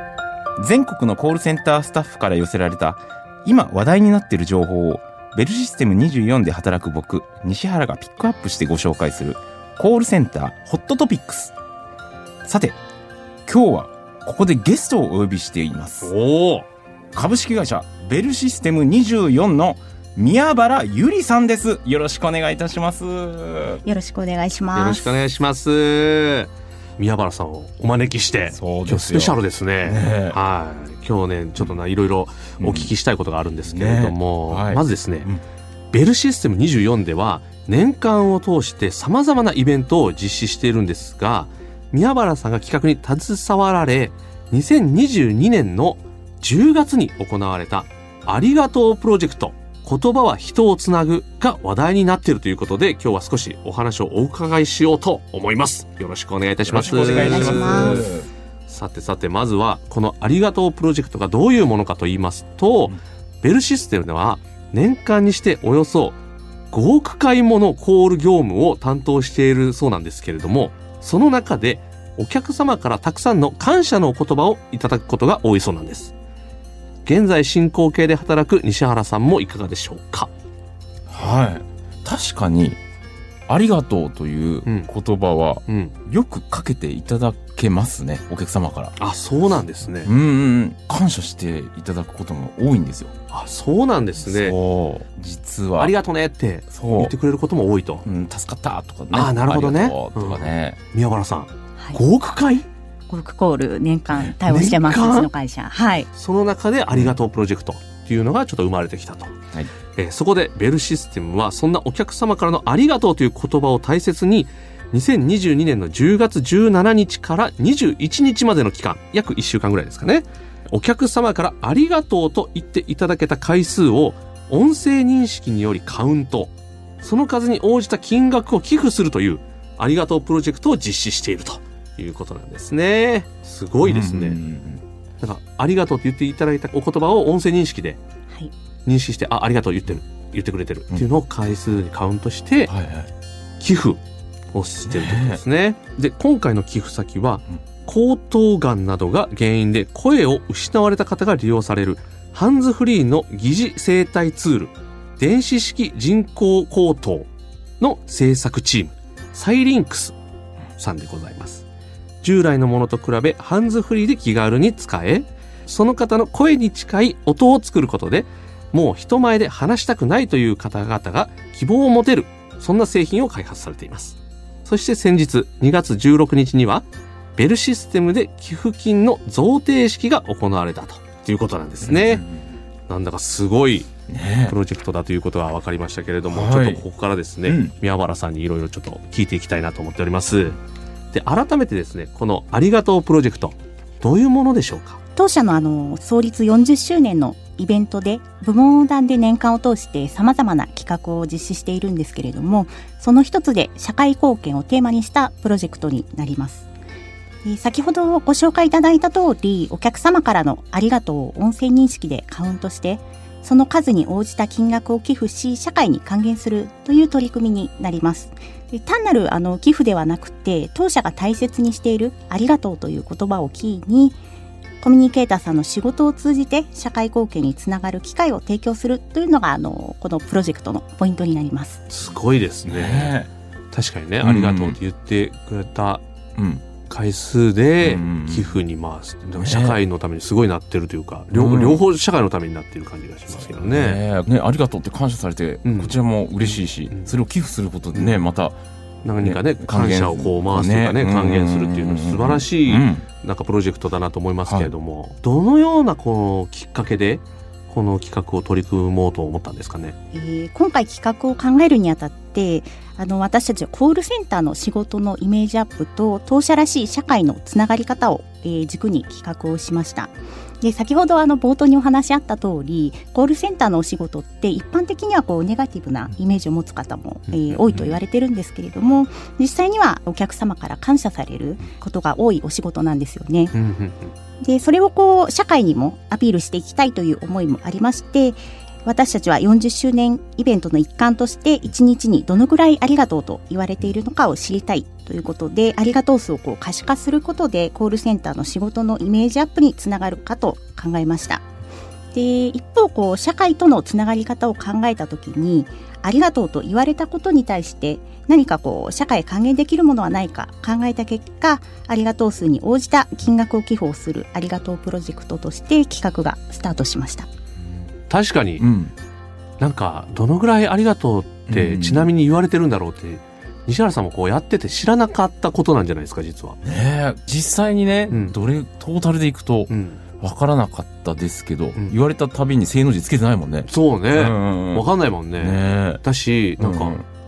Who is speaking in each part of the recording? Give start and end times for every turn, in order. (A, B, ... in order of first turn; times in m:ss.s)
0:00.6-0:11.6 A
0:12.4-0:12.8 A
0:13.5-0:16.1 A
0:16.0-0:16.7 B
0:17.1-0:23.8 A
0:23.8-0:25.2 C
0:24.8-0:35.3 B
0:28.5-0:30.4 A
0:32.6-0:32.9 A
0:33.7-0:35.4 A
0:35.9-0:58.1 B
0:56.6-0:58.3 A
0:57.1-0:58.1 C
0:58.7-1:06.2 B
1:06.7-1:16.1 B
1:17.1-1:20.3 B
1:21.1-1:22.8 A
1:23.5-1:29.0 A
1:24.7-1:24.9 B
1:25.7-1:26.0 B
1:29.0-1:30.1 B
1:30.0-1:33.1 A
1:33.3-1:34.6 B
1:34.2-1:35.9 A
1:35.8-1:38.0 B
1:36.7-1:37.1 A
1:38.0-1:40.8 A
1:39.1-1:42.7 B
1:43.1-1:46.1 C
1:44.5-1:45.3 B
1:46.2-1:49.4 B
1:50.0-2:14.4 B
2:13.8-2:14.8 A
2:15.2-2:18.0 B
2:18.9-2:22.7 B
2:22.7-2:23.1 A
2:23.6-2:24.0 B
2:24.5-2:37.3 B
2:24.8-2:25.4 A
2:37.8-2:40.2 B
2:40.8-2:41.6 B
2:42.2-2:56.8 B
2:57.4-3:02.2 B
3:01.8-3:02.5 A
3:02.9-3:03.9 B
3:04.1-3:04.6 A
3:04.5-3:10.6 B
3:06.3-3:06.8 A
3:07.4-3:07.7 A
3:11.1-3:15.0 B
3:15.2-3:26.7 C
3:27.4-3:44.2 C
3:44.8-3:51.8 C
3:51.9-3:53.2 B
3:52.7-3:53.3 A
3:53.7-3:56.0 B
3:54.2-3:54.8 A
3:56.4-3:56.7 A
3:56.9-4:04.0 B
3:57.8-3:58.6 A
3:59.4-3:59.8 A
4:01.3-4:01.8 A
4:03.4-4:08.6 A
4:05.6-4:06.0 B
4:09.0-4:20.0 B
4:09.2-4:13.1 A
4:14.5-4:14.7 A
4:20.1-4:43.6 C
4:37.3-4:37.9 B
4:43.5-4:44.1 B
4:44.4-5:01.5 C
5:02.1-5:17.3 C
5:18.1-5:18.7 B
5:18.6-5:18.9 A
5:19.6-5:26.6 B
5:21.5-5:22.1 A
5:26.6-5:34.9 A
5:28.1-5:28.4 B
5:29.7-5:30.0 B
5:33.7-5:37.0 B
5:35.4-5:36.0 A
5:36.6-5:37.0 A